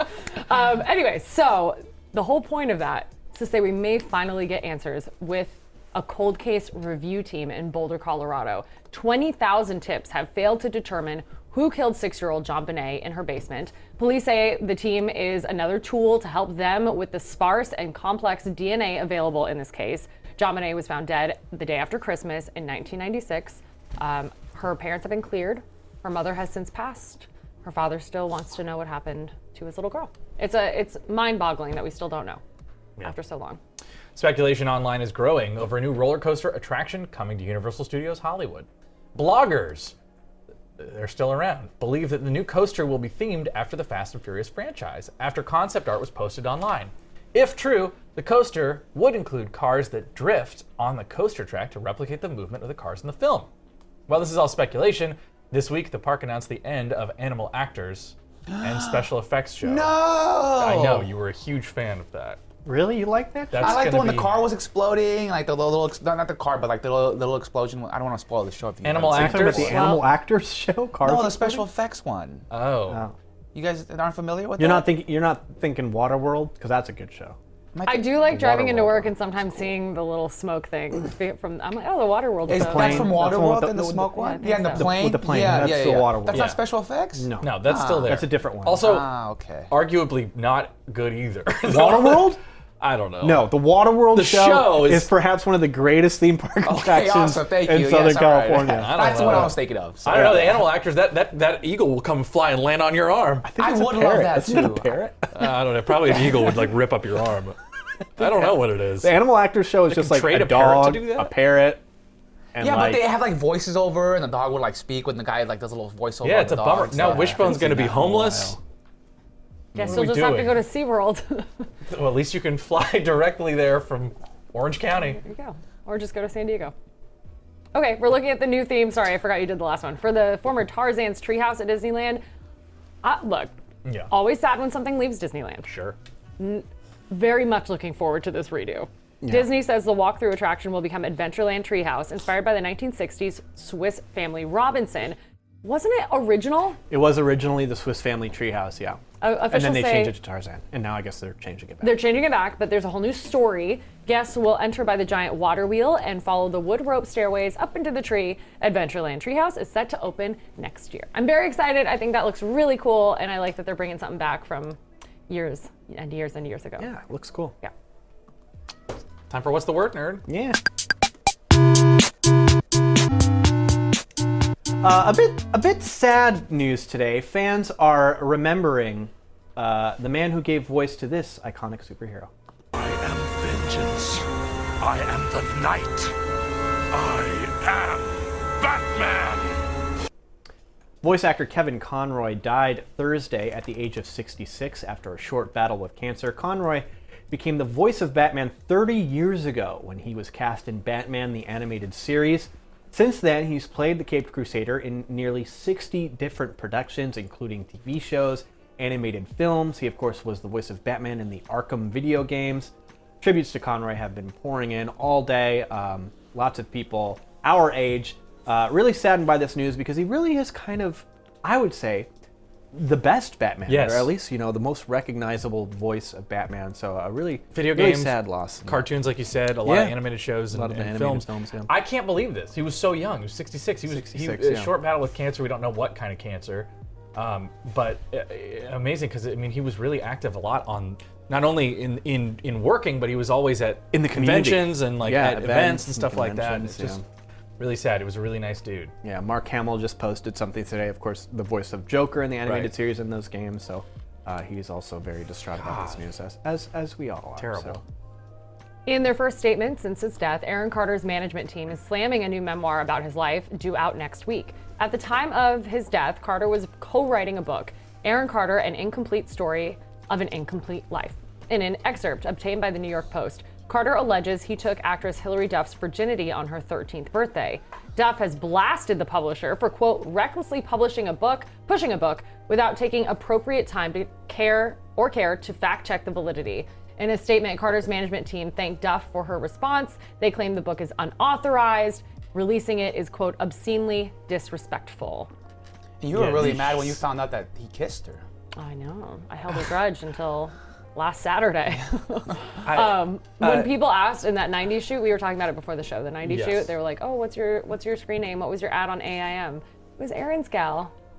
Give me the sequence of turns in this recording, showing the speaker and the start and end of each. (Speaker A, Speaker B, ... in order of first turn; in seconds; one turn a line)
Speaker A: 0.5-32.4
Speaker A: 33.0-33.6
Speaker B: 34.1-40.0
Speaker B: 40.8-53.5
Speaker B: 54.1-60.0
Speaker C: 58.5-59.1
Speaker C: 59.6-61.1
Speaker B: 60.6-62.4
Speaker D: 62.6-63.9
Speaker B: 63.5-64.3
Speaker C: 63.5-70.0
Speaker B: 68.8-70.0
Speaker D: 69.1-71.7
Speaker A: 69.8-70.1
Speaker C: 71.0-72.5
Speaker B: 72.5-73.0
Speaker C: 73.5-74.9
Speaker D: 74.6-77.4
Speaker C: 77.7-79.2
Speaker A: 77.9-83.2
Speaker C: 82.5-89.7
Speaker D: 82.5-86.5
Speaker A: 84.2-85.0
Speaker B: 86.3-86.6
Speaker D: 87.2-88.9
Speaker B: 87.4-89.1
Speaker B: 89.7-93.6
Speaker D: 91.6-92.4
Speaker D: 93.2-99.6
Speaker B: 94.1-95.1
Speaker C: 96.6-100.7
Speaker B: 98.7-103.5
Speaker D: 100.1-100.6
Speaker D: 103.4-106.7
Speaker C: 103.6-105.0
Speaker B: 105.3-107.6
Speaker B: 108.2-109.2
Speaker D: 108.2-111.8
Speaker B: 109.9-111.3
Speaker D: 112.5-113.2
Speaker C: 112.6-117.9
Speaker B: 116.2-118.6
Speaker D: 117.0-118.6
Speaker B: 119.8-120.6
Speaker A: 119.8-121.6
Speaker B: 121.9-125.2
Speaker A: 125.0-126.7
Speaker A: 127.7-132.2
Speaker A: 133.0-133.5
Speaker B: 133.8-134.1
Speaker A: 134.1-135.7
Speaker B: 135.6-136.0
Speaker A: 136.4-146.8
Speaker D: 139.2-139.5
Speaker D: 146.9-152.0
Speaker A: 149.2-150.2
Speaker A: 151.8-164.8
Speaker A: 165.3-166.9
Speaker D: 166.8-167.6
Speaker B: 169.3-170.2
Speaker D: 170.3-170.6
Speaker D: 174.8-182.3
Speaker E: 182.7-184.3
Speaker E: 184.8-186.1
Speaker E: 186.9-189.6
Speaker D: 191.0-222.1
Speaker D: 222.7-228.9
Speaker B: 223.7-224.1
Speaker B: 227.5-247.0
Speaker D: 229.6-231.8
Speaker D: 233.9-234.8
Speaker D: 243.9-247.0
Speaker B: 247.6-248.9
Speaker D: 249.0-257.8
Speaker B: 252.4-252.7
Speaker B: 255.6-256.0
Speaker B: 257.4-257.8
Speaker A: 258.9-295.3
Speaker C: 296.0-298.2
Speaker B: 296.1-297.0
Speaker A: 298.6-310.9
Speaker B: 302.6-303.7
Speaker B: 306.3-306.7